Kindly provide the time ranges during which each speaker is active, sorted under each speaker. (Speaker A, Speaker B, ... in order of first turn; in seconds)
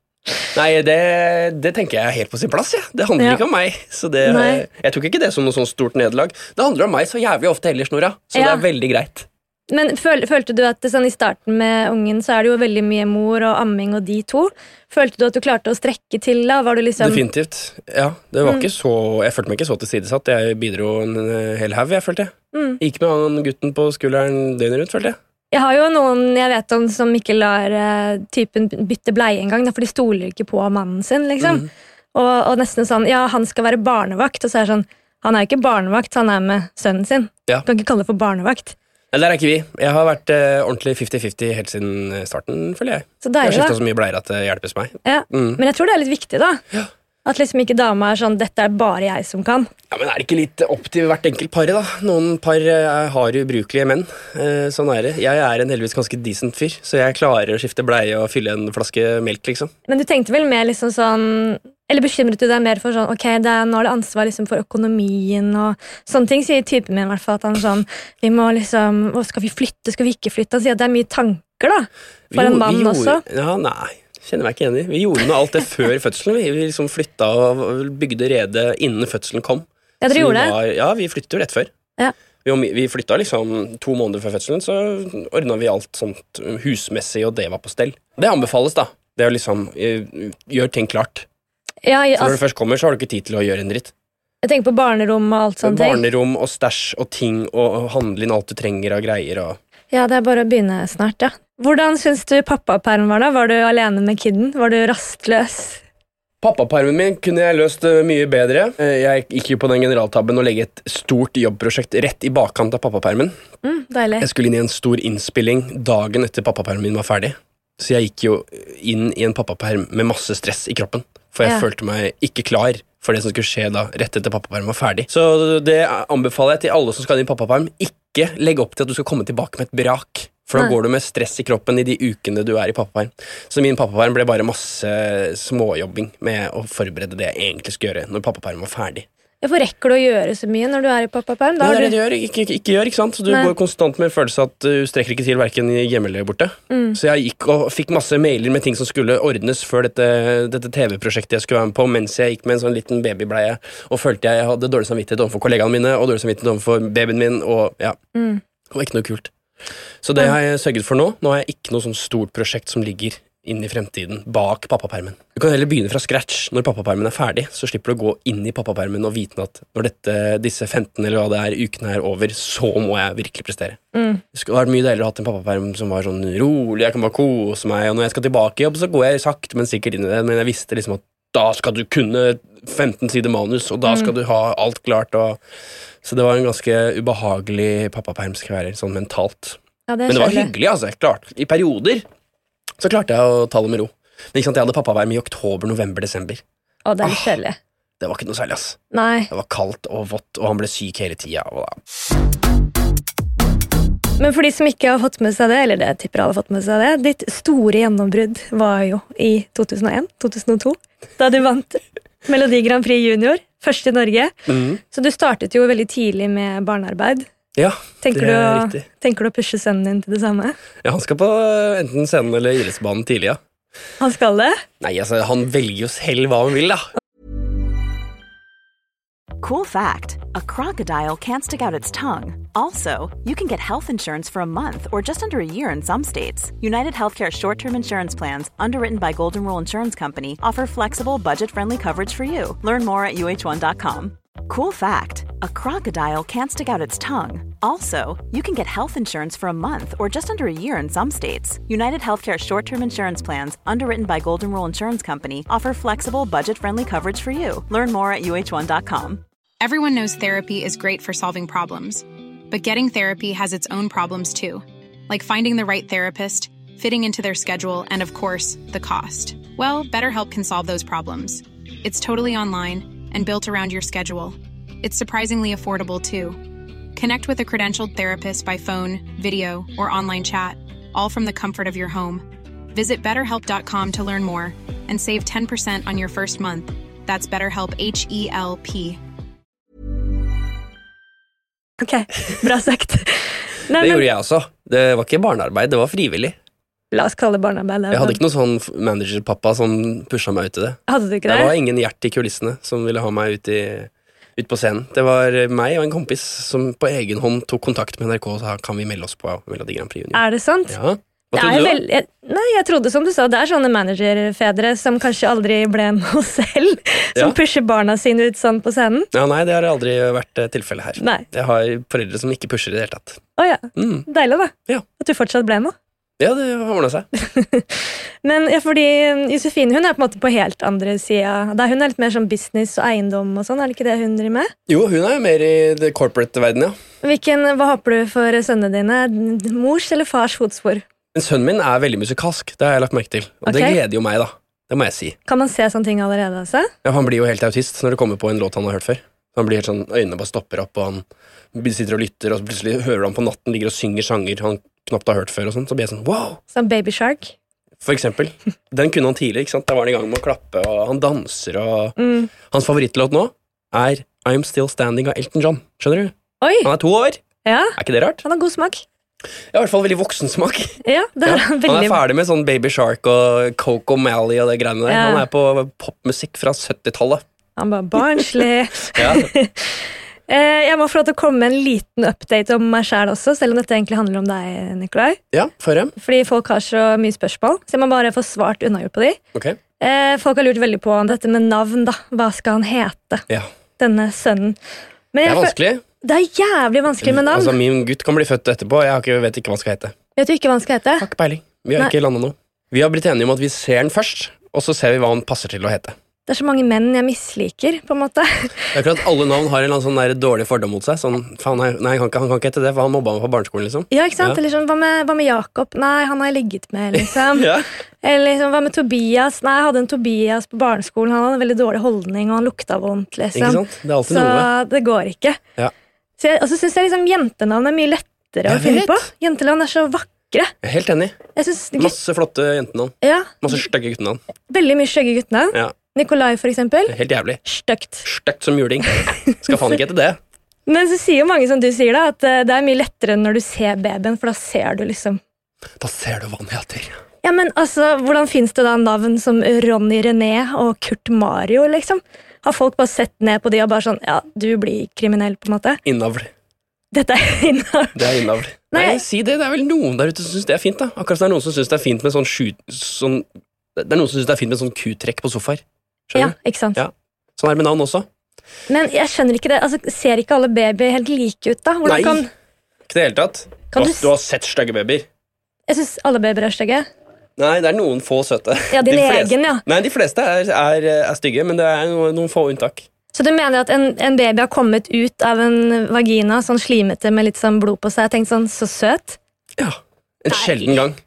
Speaker A: 0.5-9.3, 17.0-25.2, 31.4-31.7, 39.1-45.6, 49.9-59.7, 72.3-81.7, 82.4-91.2, 92.2-93.9, 95.6-99.6, 106.4-113.3, 114.2-139.1, 141.6-158.0, 158.7-159.3, 160.0-173.8, 174.3-185.4, 186.0-192.0, 192.8-196.4, 197.0-197.3, 198.0-198.8, 199.3-201.8, 214.5-214.8, 217.6-218.8, 220.8-223.4, 224.8-226.9, 293.8-296.4, 297.9-311.8, 319.1-323.2, 323.7-324.1, 326.2-327.1, 334.7-336.8, 341.1-345.2, 346.8-356.4, 357.8-362.0, 362.5-366.1, 366.6-367.2, 367.8-368.2, 369.5-377.2, 378.9-379.3, 385.3-385.9, 395.2-395.8, 397.0-399.9, 401.0-405.9, 408.7-414.4, 417.0-417.6, 423.3-424.5, 428.5-429.1, 430.6-431.2, 431.8-434.2, 436.9-437.4, 438.0-440.2, 445.8-447.0, 455.8-456.3, 457.9-468.1, 471.8-472.2, 472.9-475.1, 477.4-482.9, 489.6-491.0
Speaker B: 4.2-4.6, 8.3-8.6, 9.7-17.2, 22.5-22.8, 25.5-38.7, 43.2-43.8, 45.0-46.6, 47.2-49.7, 59.9-73.2, 80.0-80.5, 91.8-92.4, 94.4-96.0, 99.9-105.8, 113.6-114.3, 139.4-141.9, 146.7-147.0, 158.1-158.4, 173.9-174.2, 183.8-184.1, 189.9-190.5, 196.8-197.6, 198.9-199.3, 204.2-214.3, 214.9-217.3, 218.0-220.6, 224.0-224.6, 291.8-294.0, 296.9-298.2, 300.9-301.5, 310.1-310.8, 311.3-319.1, 321.0-321.2, 323.4-325.7, 327.1-334.5, 337.0-340.8, 343.4-343.8, 345.3-346.7, 356.5-357.3, 362.0-362.3, 366.4-366.7, 367.4-368.8, 370.8-372.0, 374.9-375.2, 377.6-385.2, 386.0-389.2, 389.8-393.2, 393.8-394.6, 395.1-397.5, 400.2-401.1, 406.3-408.7, 413.9-417.5, 418.0-425.4, 426.2-430.5, 431.4-431.9, 433.0-433.4, 434.5-436.9, 437.4-438.0, 439.2-439.5, 440.7-445.2, 447.2-455.8, 456.9-458.2, 458.7-459.0, 466.1-466.8, 468.7-472.3, 473.7-474.1, 475.7-476.9, 478.7-479.6, 483.1-489.2, 490.3-490.8
Speaker C: 229.4-259.2
Speaker D: 259.6-276.4, 276.9-289.0